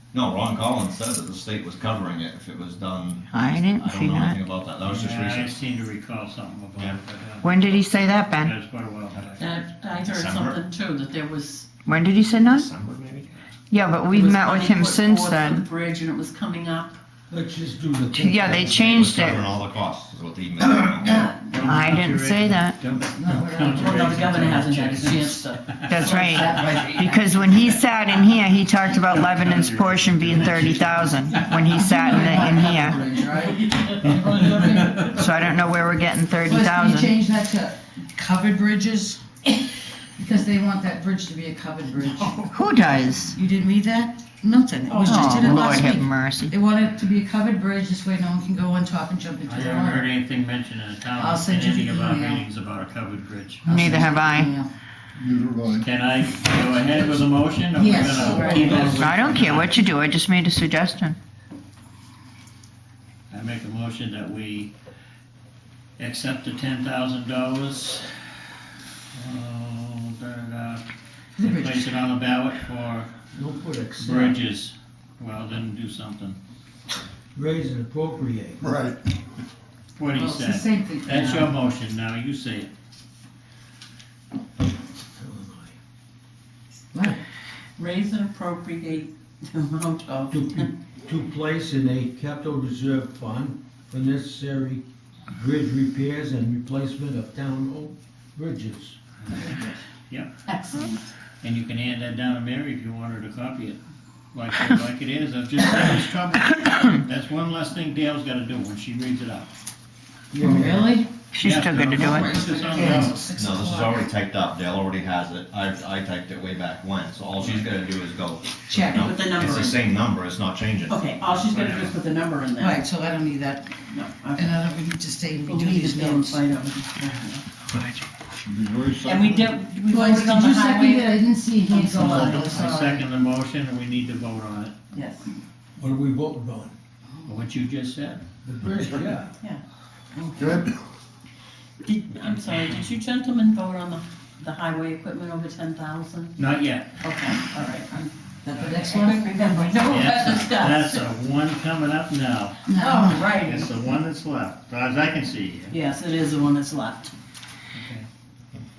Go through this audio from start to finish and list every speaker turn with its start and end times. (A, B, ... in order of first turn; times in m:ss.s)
0:00.1-0:05.6 A
0:03.3-0:04.4 B
0:04.9-0:07.8 C
0:07.4-0:08.5 B
0:08.4-0:09.4 C
0:09.1-0:09.4 A
0:09.4-0:11.7 D
0:10.0-0:10.6 A
0:11.9-0:12.7 B
0:12.5-0:13.4 A
0:13.7-0:15.6 B
0:14.1-0:17.0 D
0:17.3-0:19.2 E
0:18.1-0:19.5 B
0:18.8-0:21.2 A
0:20.8-0:21.5 D
0:21.5-0:26.8 C
0:21.5-0:22.8 B
0:22.9-0:24.5 F
0:23.7-0:27.7 D
0:25.9-0:33.0 B
0:29.1-0:31.6 C
0:31.8-0:35.3 D
0:31.9-0:35.1 F
0:34.0-0:35.1 C
0:35.1-0:37.1 B
0:36.4-0:39.2 F
0:40.2-0:42.5 F
0:42.5-0:43.4 B
0:43.3-0:50.1 F
0:44.8-0:45.8 D
0:45.0-0:46.6 B
0:49.5-0:53.7 C
0:51.2-0:52.4 F
0:53.6-0:54.7 F
0:53.7-0:54.5 B
0:55.2-0:55.8 A
0:55.7-0:59.7 C
0:57.8-0:59.0 F
0:58.1-0:59.0 D
0:58.8-1:01.2 B
1:03.3-1:04.7 C
1:06.0-1:08.3 C
1:09.1-1:10.8 C
1:11.4-1:11.9 F
1:11.4-1:13.1 C
1:13.3-1:14.4 E
1:14.0-1:16.4 C
1:17.3-1:18.8 E
1:18.6-1:19.0 A
1:20.0-1:22.7 C
1:20.1-1:21.5 F
1:25.2-1:25.8 E
1:26.9-1:27.2 F
1:27.8-1:30.7 D
1:30.3-1:39.0 E
1:39.2-1:39.6 C
1:39.4-1:39.7 F
1:40.1-1:40.3 C
1:40.4-1:41.1 D
1:41.4-1:43.8 C
1:44.3-1:49.5 C
1:50.3-1:51.0 E
1:50.3-1:51.2 F
1:51.3-1:52.3 B
1:51.4-1:53.2 C
1:52.0-1:53.2 D
1:52.0-1:54.1 F
1:53.3-2:01.0 A
1:58.7-1:59.2 F
1:58.9-1:59.8 D
2:00.9-2:02.8 D
2:02.6-2:03.8 F
2:03.9-2:04.6 D
2:04.4-2:06.4 F
2:05.4-2:07.4 D
2:08.5-2:09.4 A
2:09.0-2:12.7 D
2:09.9-2:13.0 F
2:11.9-2:14.8 C
2:14.9-2:15.3 D
2:15.8-2:16.8 E
2:17.3-2:18.2 C
2:18.4-2:19.3 E
2:20.2-2:20.6 D
2:21.8-2:26.4 D
2:26.4-2:26.9 C
2:27.0-2:28.0 D
2:27.1-2:30.4 F
2:28.6-2:31.0 D
2:29.9-2:32.6 C
2:32.7-2:33.4 F
2:32.8-2:33.7 D
2:33.4-2:35.8 C
2:35.7-2:37.1 D
2:37.7-2:38.1 C